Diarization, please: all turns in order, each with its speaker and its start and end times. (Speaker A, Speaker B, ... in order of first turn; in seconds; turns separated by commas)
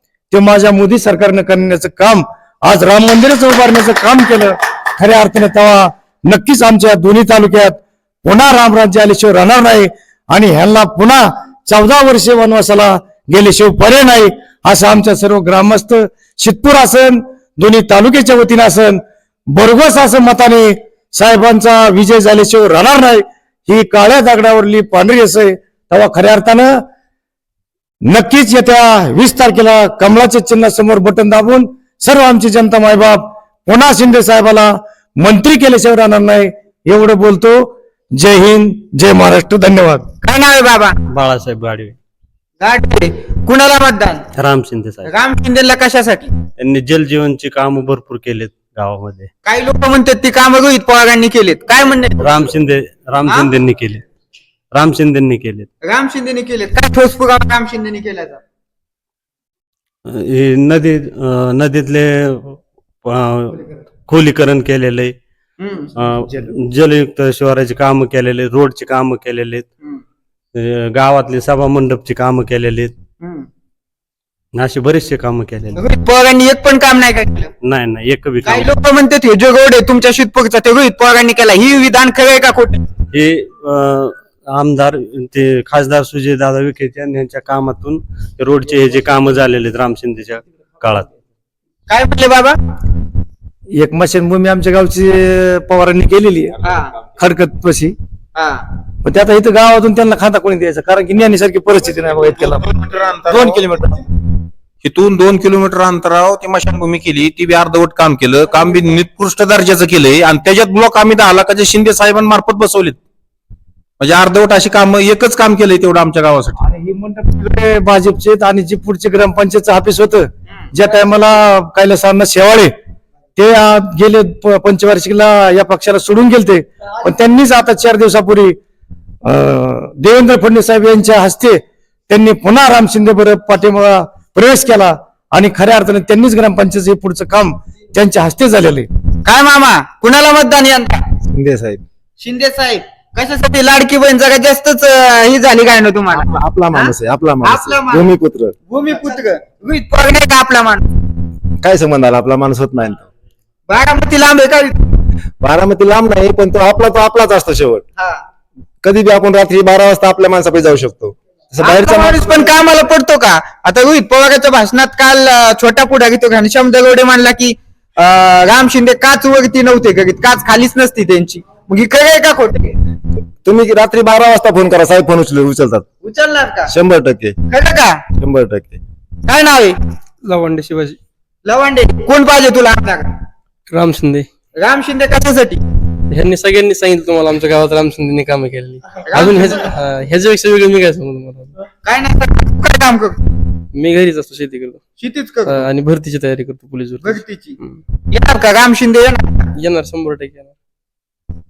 Speaker A: 0.3-26.8, Speaker A: 28.0-37.6, Speaker A: 38.1-40.0, Speaker B: 40.2-40.9, Speaker C: 41.1-42.0, Speaker B: 42.6-44.2, Speaker C: 44.3-45.1, Speaker B: 45.0-46.3, Speaker C: 46.6-49.3, Speaker B: 49.4-52.2, Speaker C: 52.2-54.0, Speaker C: 54.7-55.7, Speaker B: 55.8-58.4, Speaker C: 60.1-65.2, Speaker B: 65.6-65.9, Speaker C: 65.9-69.7, Speaker C: 70.5-72.9, Speaker C: 74.5-75.8, Speaker B: 75.8-77.5, Speaker C: 77.6-78.7, Speaker B: 78.4-82.8, Speaker C: 83.1-91.1, Speaker B: 91.9-92.6, Speaker A: 93.7-96.5, Speaker B: 96.6-96.9, Speaker A: 97.2-97.9, Speaker B: 98.3-98.6, Speaker A: 99.0-102.7, Speaker D: 102.7-103.6, Speaker A: 103.3-104.0, Speaker D: 104.8-113.0, Speaker D: 114.0-116.6, Speaker A: 116.6-122.7, Speaker A: 123.3-128.6, Speaker A: 129.2-138.9, Speaker B: 139.2-141.0, Speaker E: 141.3-141.8, Speaker B: 142.2-150.9, Speaker E: 146.2-148.5, Speaker E: 151.6-153.0, Speaker B: 153.7-155.0, Speaker E: 155.4-157.8, Speaker E: 158.8-162.5, Speaker B: 161.6-172.8, Speaker E: 173.4-175.8, Speaker B: 176.0-176.7, Speaker E: 176.7-177.3, Speaker B: 177.5-178.0, Speaker E: 178.2-178.8, Speaker B: 179.3-179.8, Speaker F: 180.2-181.0, Speaker B: 181.4-183.1, Speaker F: 183.7-184.3, Speaker B: 184.6-185.6, Speaker F: 186.1-191.5, Speaker B: 189.1-189.7, Speaker B: 191.8-193.2, Speaker F: 193.7-194.8, Speaker B: 195.0-195.7, Speaker F: 195.4-197.8, Speaker B: 197.0-197.6, Speaker B: 198.1-199.5, Speaker F: 199.6-200.5